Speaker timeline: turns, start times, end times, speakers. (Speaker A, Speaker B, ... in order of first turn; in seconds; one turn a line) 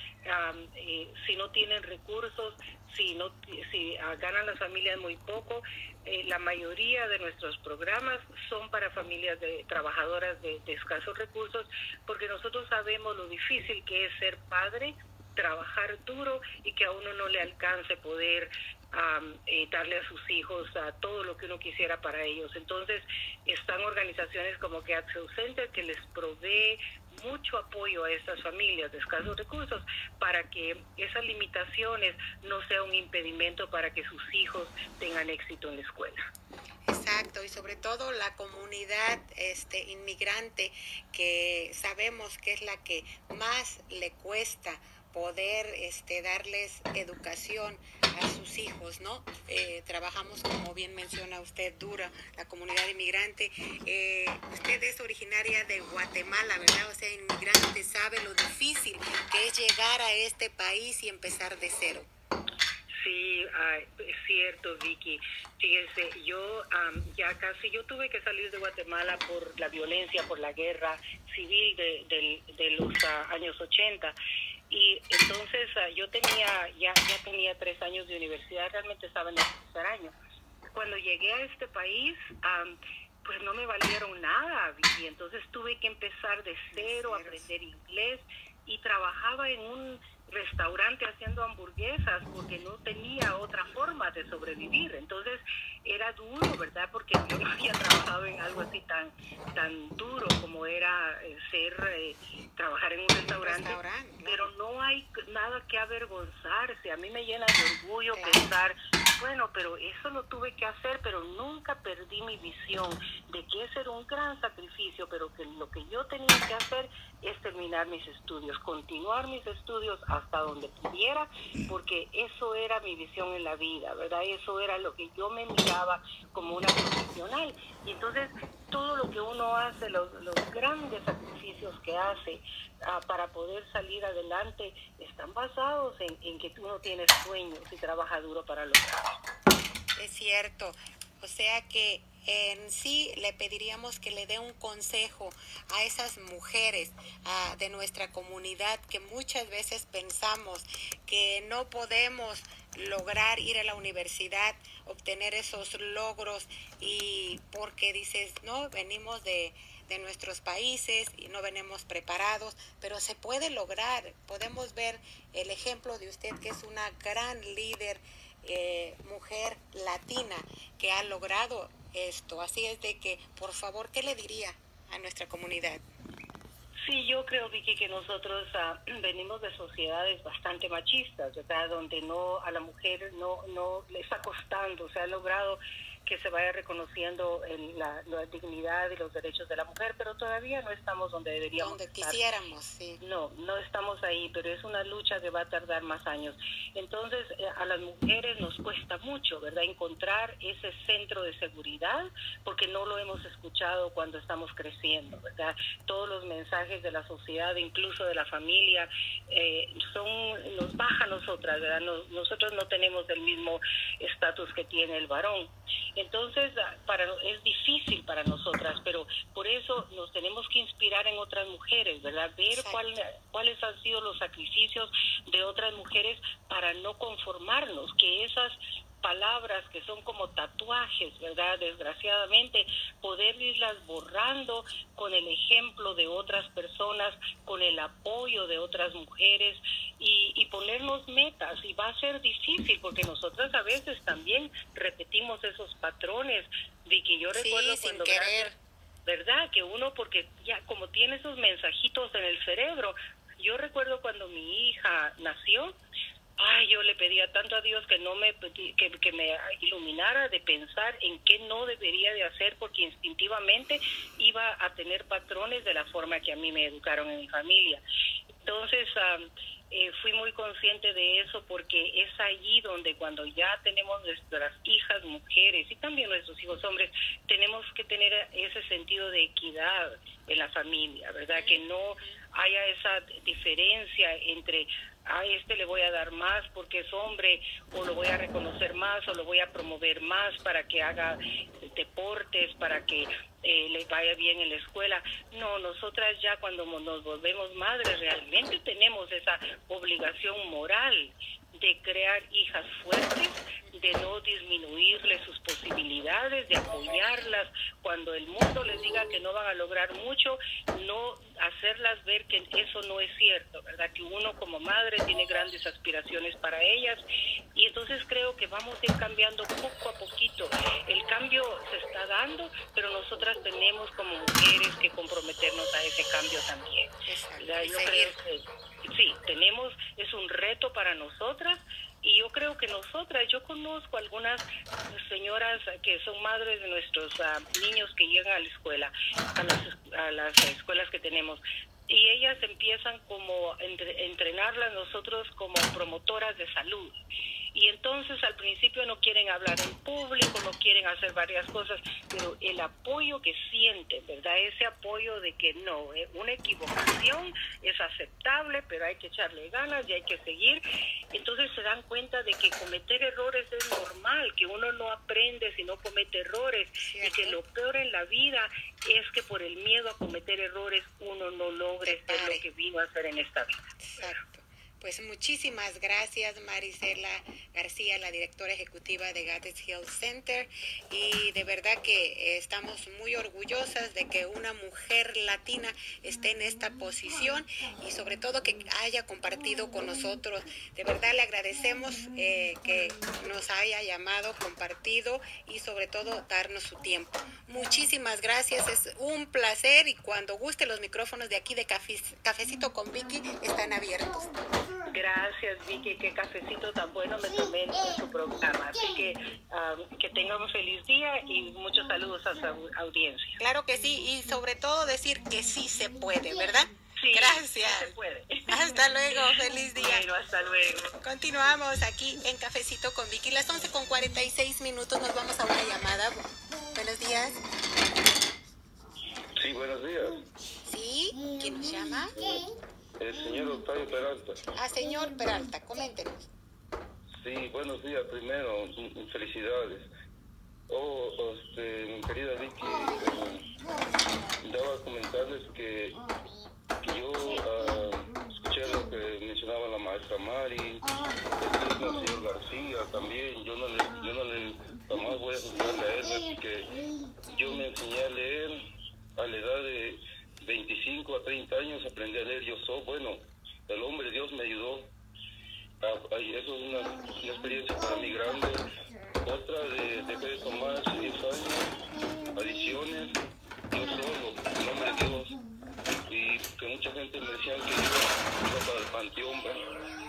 Speaker A: 0.2-36.3
Speaker B: 36.9-62.1
Speaker A: 62.9-74.1
Speaker A: 74.7-80.1
Speaker A: 80.7-139.2
Speaker B: 86.7-87.5
Speaker B: 103.2-104.5
Speaker B: 108.1-108.5
Speaker B: 139.9-175.8
Speaker A: 176.8-192.2
Speaker B: 191.6-193.0
Speaker A: 193.0-248.5
Speaker B: 222.5-222.8
Speaker B: 247.3-248.5
Speaker A: 249.1-255.7
Speaker A: 256.4-267.8
Speaker A: 268.4-317.0
Speaker B: 281.3-282.2
Speaker A: 317.5-347.0
Speaker B: 327.1-328.1
Speaker A: 347.5-374.2
Speaker B: 366.8-367.4
Speaker B: 371.8-372.4
Speaker B: 373.8-404.4
Speaker A: 404.9-413.4
Speaker B: 413.4-417.9
Speaker A: 417.0-418.5
Speaker B: 418.5-420.1
Speaker A: 419.0-420.9
Speaker B: 421.0-427.4
Speaker C: 429.4-430.2
Speaker B: 430.6-432.2
Speaker C: 433.0-434.4
Speaker B: 434.5-436.3
Speaker C: 437.1-439.9
Speaker C: 440.7-443.5
Speaker C: 444.4-446.0
Speaker C: 446.8-450.8
Speaker C: 451.4-456.7
Speaker C: 457.3-464.9
Speaker C: 465.8-468.7
Speaker C: 469.2-471.7
Speaker C: 472.3-473.2
Speaker C: 473.7-475.3
Speaker C: 476.1-479.7